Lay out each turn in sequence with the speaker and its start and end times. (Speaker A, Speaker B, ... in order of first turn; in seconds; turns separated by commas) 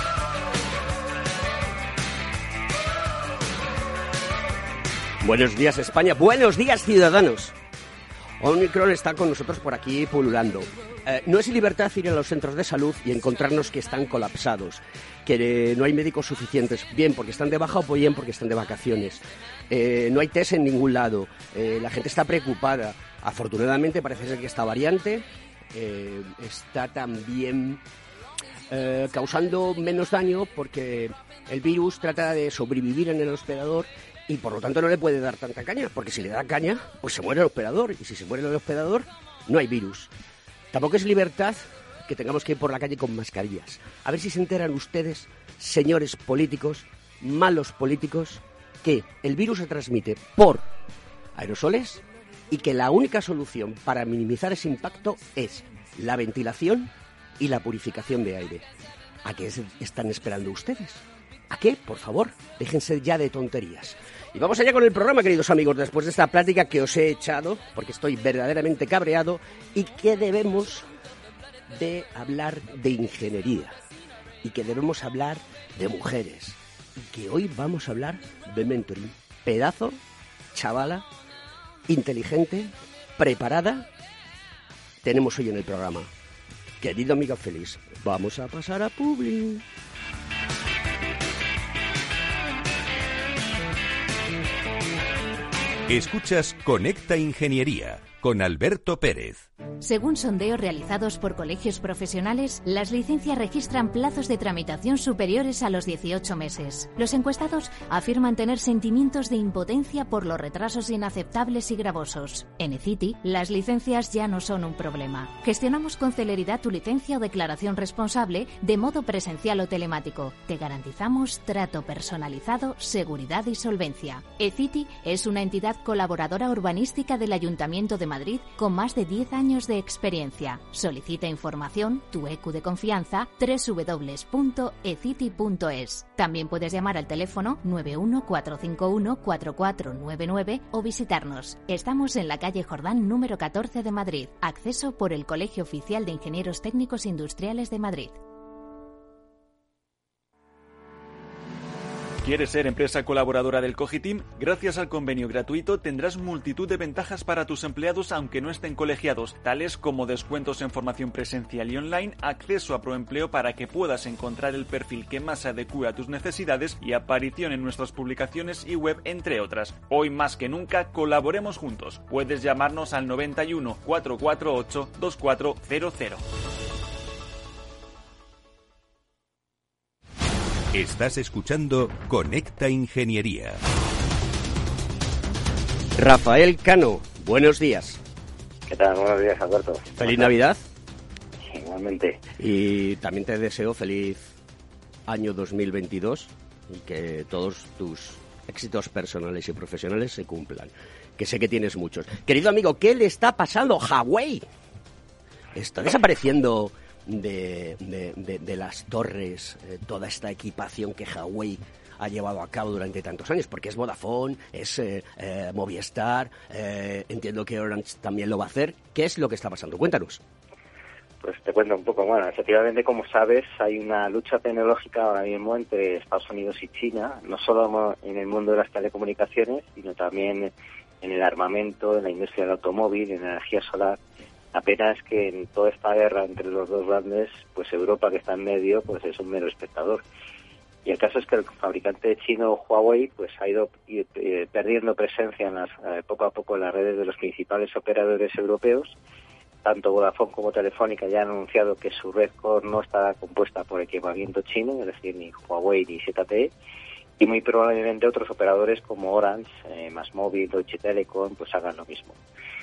Speaker A: 5.2-7.6, Speaker A: 8.4-27.8, Speaker A: 28.7-40.1, Speaker A: 40.7-50.7, Speaker A: 51.4-58.7, Speaker A: 59.2-70.9, Speaker A: 71.7-73.7, Speaker A: 74.4-80.0, Speaker A: 80.5-81.1, Speaker A: 81.9-83.9, Speaker A: 85.0-86.1, Speaker A: 86.8-89.7, Speaker B: 95.9-99.5, Speaker C: 99.8-148.2, Speaker D: 152.2-176.2, Speaker B: 180.7-183.6, Speaker A: 185.9-188.0, Speaker E: 188.7-190.3, Speaker A: 190.0-190.6, Speaker E: 191.5-192.2, Speaker A: 192.4-194.3, Speaker A: 195.1-204.4, Speaker A: 205.5-220.2, Speaker E: 221.2-234.0, Speaker E: 234.5-240.0, Speaker E: 240.8-248.9, Speaker E: 249.6-256.5, Speaker E: 257.2-262.2